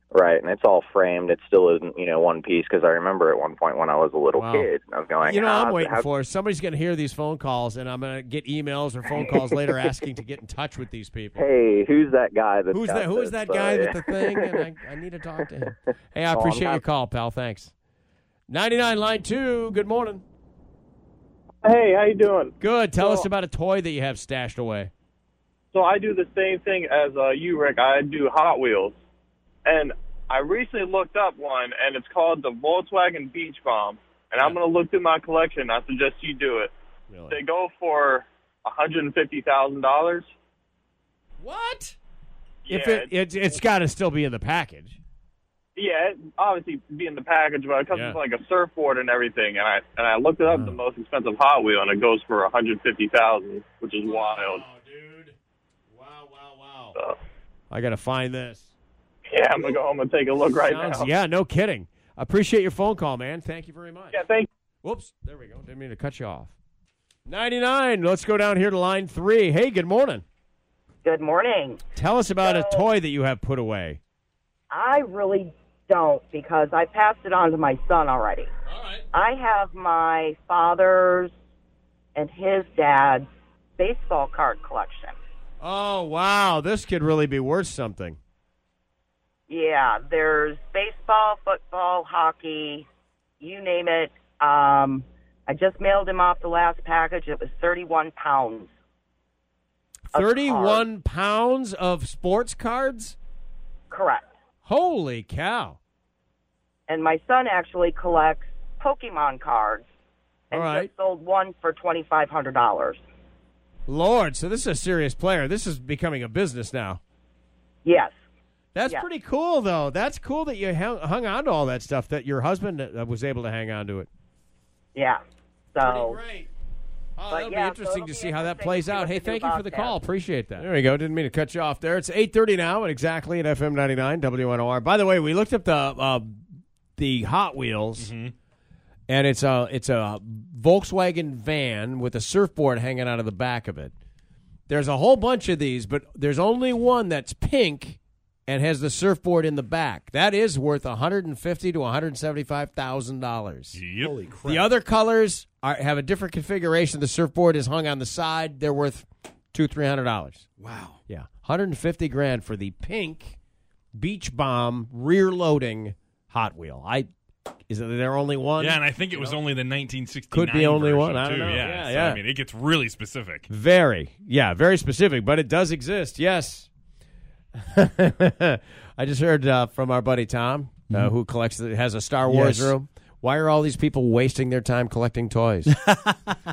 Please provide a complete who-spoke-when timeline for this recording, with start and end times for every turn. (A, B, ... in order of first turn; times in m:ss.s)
0:00.1-0:06.1 A
0:04.4-0:04.7 B
0:05.2-0:11.5 B
0:11.4-0:14.6 A
0:12.7-0:17.7 B
0:16.3-0:16.8 A
0:18.5-0:20.2 B
0:21.6-0:22.5 C
0:22.6-0:24.9 B
0:25.7-0:28.9 C
0:29.7-0:36.7 C
0:37.1-0:37.4 B
0:37.3-0:40.3 C
0:41.4-0:42.0 B
0:42.7-0:45.0 B
0:42.8-0:43.1 C
0:45.8-0:54.6 C
0:47.9-0:48.2 B
0:50.5-0:50.8 B
0:54.0-0:55.4 B
0:55.9-0:57.0 B
0:57.7-0:58.7 B
0:59.4-1:01.1 C
1:00.6-1:04.2 B
1:04.1-1:04.5 C
1:04.8-1:06.5 B
1:07.3-1:10.2 B
1:11.0-1:11.8 D
1:12.0-1:14.0 B
1:12.4-1:12.9 D
1:14.7-1:18.5 D
1:18.7-1:19.0 B
1:19.1-1:21.3 D
1:22.2-1:25.2 D
1:25.6-1:28.2 B
1:29.5-1:32.9 D
1:33.4-1:38.7 D
1:40.1-1:43.2 B
1:40.1-1:40.9 D
1:43.9-1:44.3 D
1:44.6-1:45.8 B
1:46.9-1:49.9 D
1:50.5-1:53.0 D
1:50.5-1:50.9 B
1:53.9-1:57.0 B
1:57.8-1:58.2 D
1:58.8-2:04.1 B
2:05.0-2:05.2 D
2:05.7-2:06.2 D
2:05.8-2:06.5 B
2:07.2-2:16.4 B
2:07.3-2:10.0 D
2:17.0-2:18.1 B
2:18.0-2:18.3 E
2:19.1-2:23.9 B
2:24.7-2:33.8 B
2:33.7-2:34.1 E
2:34.0-2:34.7 F
2:34.5-2:40.5 B
2:40.6-2:41.0 F
2:41.1-2:43.4 B
2:43.9-2:47.1 B
2:47.7-2:49.4 B
2:48.6-2:53.5 E
2:50.3-2:52.2 B
2:53.5-2:56.7 B
2:57.7-3:05.8 B
3:02.3-3:02.8 F
3:05.9-3:06.2 F